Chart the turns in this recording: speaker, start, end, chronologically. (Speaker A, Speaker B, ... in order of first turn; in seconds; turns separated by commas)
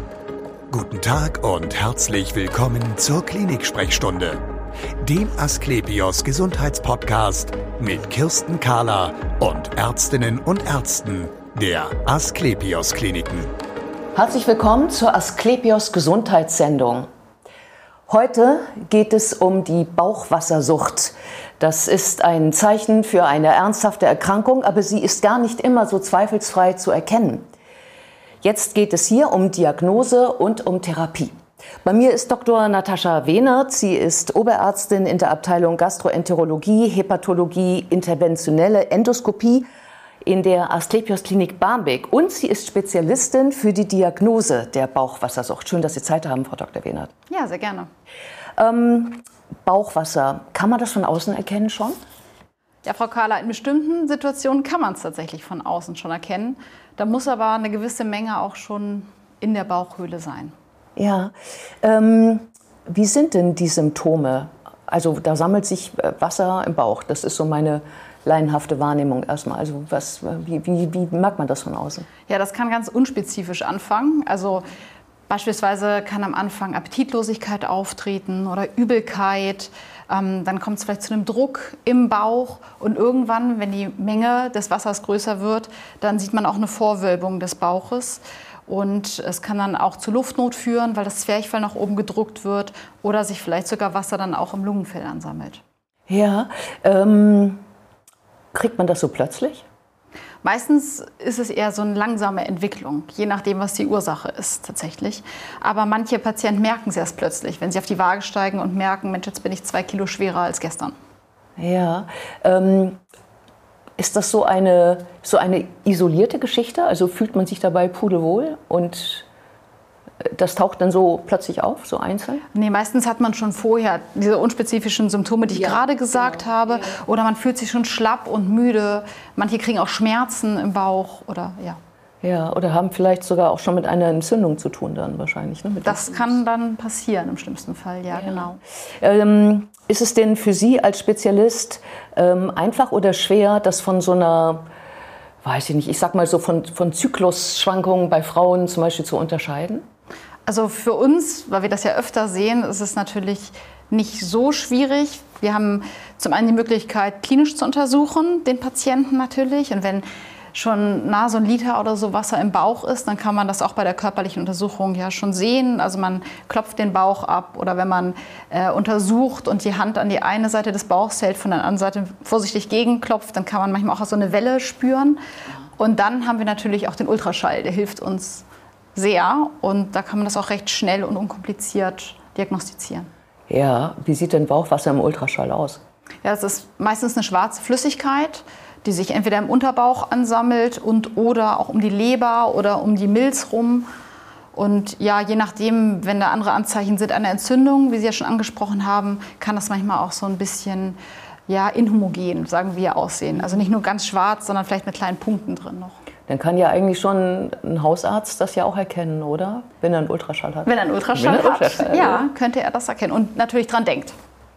Speaker A: 0.7-4.4, Speaker A: 5.0-13.5, Speaker B: 14.1-17.1, Speaker B: 18.1-27.4, Speaker B: 28.4-39.6, Speaker B: 40.2-47.1, Speaker C: 47.3-47.9, Speaker B: 48.6-52.0, Speaker C: 52.8-60.5, Speaker B: 61.0-72.1, Speaker C: 72.3-74.7, Speaker C: 75.3-95.6, Speaker B: 96.1-97.6, Speaker B: 98.5-99.6, Speaker C: 100.4-110.9, Speaker B: 111.6-113.0, Speaker B: 114.0-119.2, Speaker B: 120.2-122.4, Speaker C: 122.5-131.8, Speaker B: 132.2-136.4, Speaker C: 135.8-138.6, Speaker B: 139.0-144.6, Speaker B: 145.4-149.8, Speaker C: 150.4-160.0, Speaker C: 160.5-175.2, Speaker C: 175.8-183.1, Speaker B: 183.5-185.8, Speaker C: 186.2-193.9, Speaker C: 194.5-205.9, Speaker B: 206.3-212.3, Speaker C: 210.6-214.1